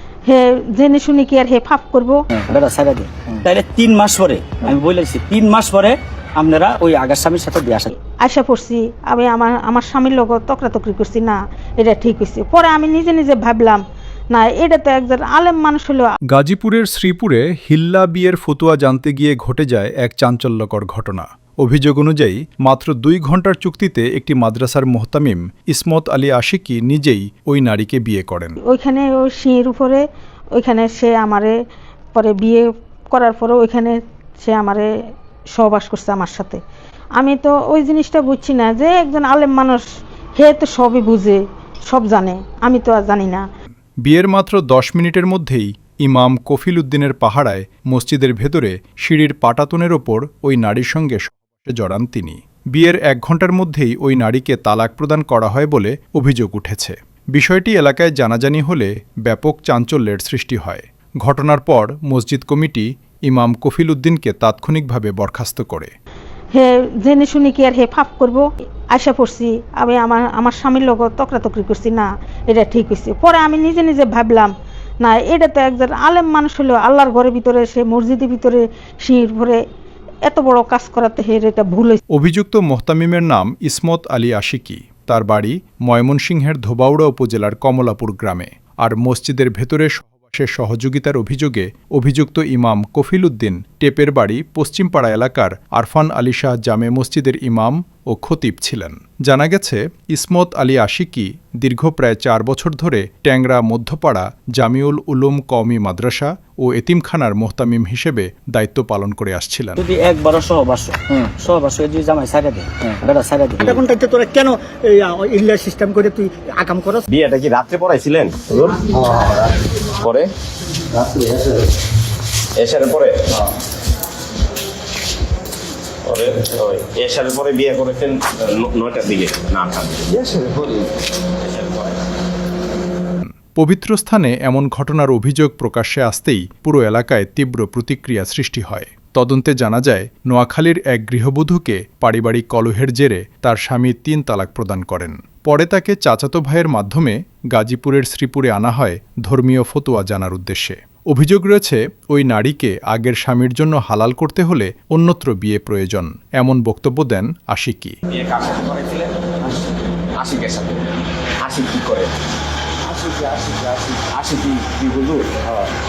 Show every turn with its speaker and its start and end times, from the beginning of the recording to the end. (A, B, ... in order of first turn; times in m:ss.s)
0:00.2-0:02.2 A
0:02.4-0:07.9 B
0:08.2-0:16.1 A
0:16.3-0:28.6 C
0:28.6-0:30.0 A
0:30.5-0:31.5 A
0:32.1-0:34.9 A
0:35.5-0:36.6 A
0:37.2-0:39.8 A
0:40.4-0:43.4 A
0:44.0-1:05.9 C
1:06.5-1:14.5 A
1:15.0-1:19.6 A
1:20.2-1:22.0 A
1:22.1-1:49.8 C
1:49.8-1:53.8 B
1:53.8-1:57.0 D
1:57.1-1:59.4 E
2:00.0-2:00.3 E
2:02.6-2:03.4 E
2:06.0-2:10.8 E
2:11.4-2:12.0 E
2:13.6-2:38.0 C
2:38.1-2:39.6 E
2:40.2-2:40.8 E
2:41.4-2:42.2 E
2:42.9-2:45.7 E